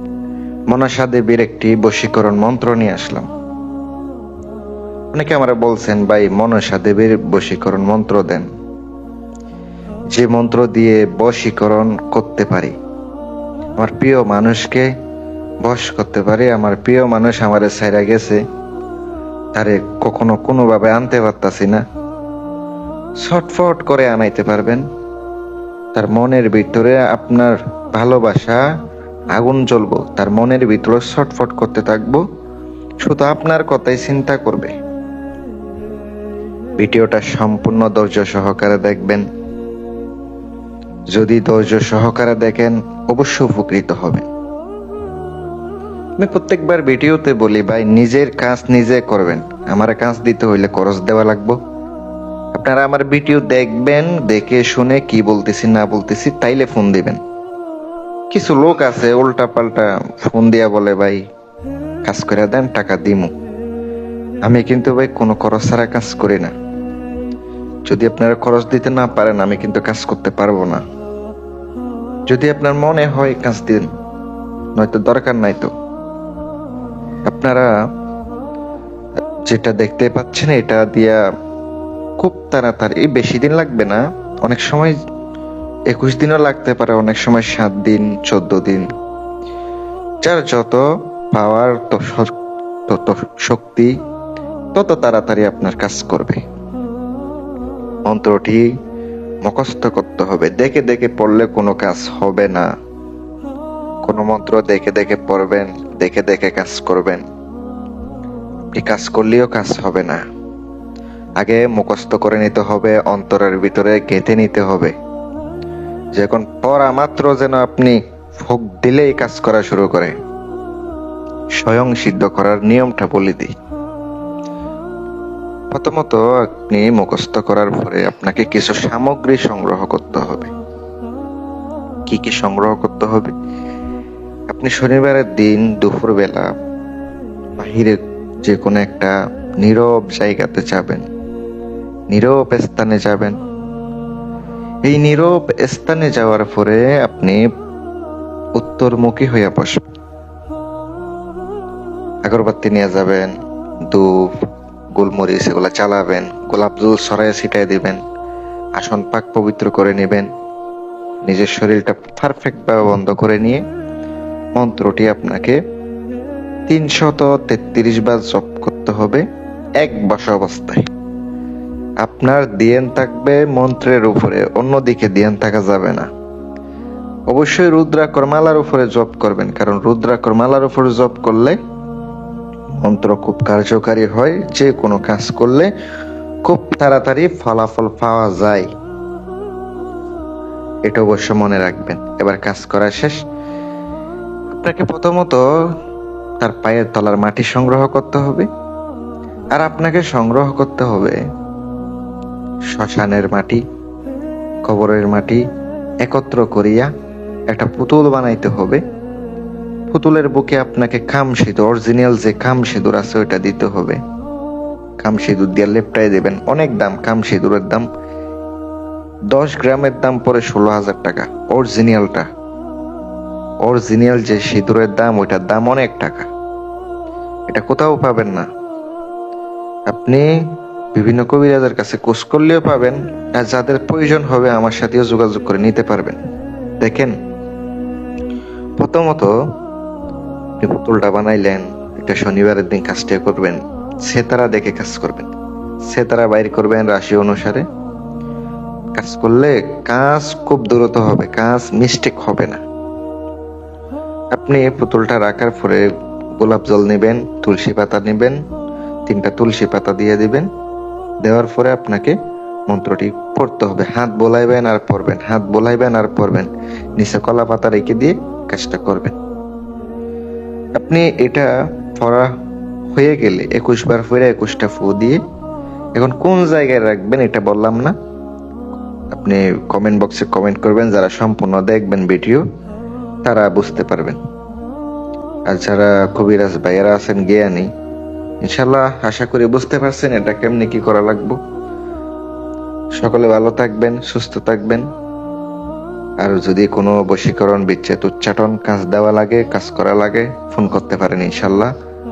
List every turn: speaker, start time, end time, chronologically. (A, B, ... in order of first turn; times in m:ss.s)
0:00.7-0:03.3 A
0:05.1-0:08.5 A
0:10.1-0:12.7 A
0:13.8-0:14.9 A
0:15.6-0:18.4 A
0:19.6-0:21.8 A
0:23.2-0:24.8 A
0:26.0-0:28.6 A
0:29.4-0:32.2 A
0:33.0-0:34.7 A
0:36.8-0:39.2 A
0:41.1-0:44.2 A
0:46.2-0:51.6 A
0:52.6-0:57.2 A
0:58.3-1:01.2 A
1:02.1-1:03.3 A
1:04.4-1:06.5 A
1:07.9-1:10.8 A
1:12.3-1:13.9 A
1:14.8-1:15.7 A
1:17.3-1:17.7 A
1:19.5-1:21.2 A
1:22.2-1:25.0 A
1:25.9-1:28.8 A
1:30.2-1:32.3 A
1:32.9-1:33.9 A
1:34.7-1:36.4 A
1:38.1-1:38.7 A
1:39.4-1:42.7 A
1:44.1-1:47.2 A
1:48.7-1:50.2 A
1:51.4-1:54.9 A
1:56.2-2:00.1 A
2:01.6-2:03.5 A
2:05.7-2:10.5 A
2:12.1-2:13.3 A
2:14.5-2:16.5 A
2:17.6-2:21.0 A
2:22.1-2:23.4 A
2:24.8-2:27.4 A
2:28.6-2:29.8 A
2:32.2-2:33.3 A
2:35.0-2:38.0 A
2:38.8-2:40.3 A
2:41.2-2:43.6 A
2:44.6-2:45.6 A
2:46.7-2:49.2 A
2:49.8-2:50.9 A
2:52.0-2:56.1 A
2:57.3-3:01.6 A
3:02.8-3:05.7 A
3:06.4-3:08.7 A
3:10.9-3:13.2 A
3:14.5-3:15.4 A
3:16.4-3:18.5 A
3:19.6-3:21.2 A
3:22.7-3:23.6 A
3:24.7-3:25.4 A
3:26.0-3:26.9 A
3:27.5-3:28.8 A
3:29.9-3:34.0 A
3:35.0-3:37.9 A
3:39.3-3:42.3 A
3:43.6-3:46.3 A
3:47.5-3:48.5 A
3:49.9-3:50.2 A
3:50.9-3:56.2 A
3:56.8-3:57.1 A
3:58.8-3:59.3 A
4:00.6-4:05.3 A
4:05.9-4:07.6 A
4:09.0-4:12.6 A
4:14.3-4:15.9 A
4:16.4-4:18.4 A
4:19.1-4:20.5 A
4:21.2-4:22.2 A
4:22.7-4:29.2 A
4:30.8-4:32.3 A
4:32.9-4:35.2 A
4:36.0-4:38.0 A
4:39.1-4:42.4 A
4:43.2-4:44.2 A
4:45.5-4:47.7 A
4:48.4-4:51.4 A
4:53.0-4:54.8 A
4:56.2-5:01.7 A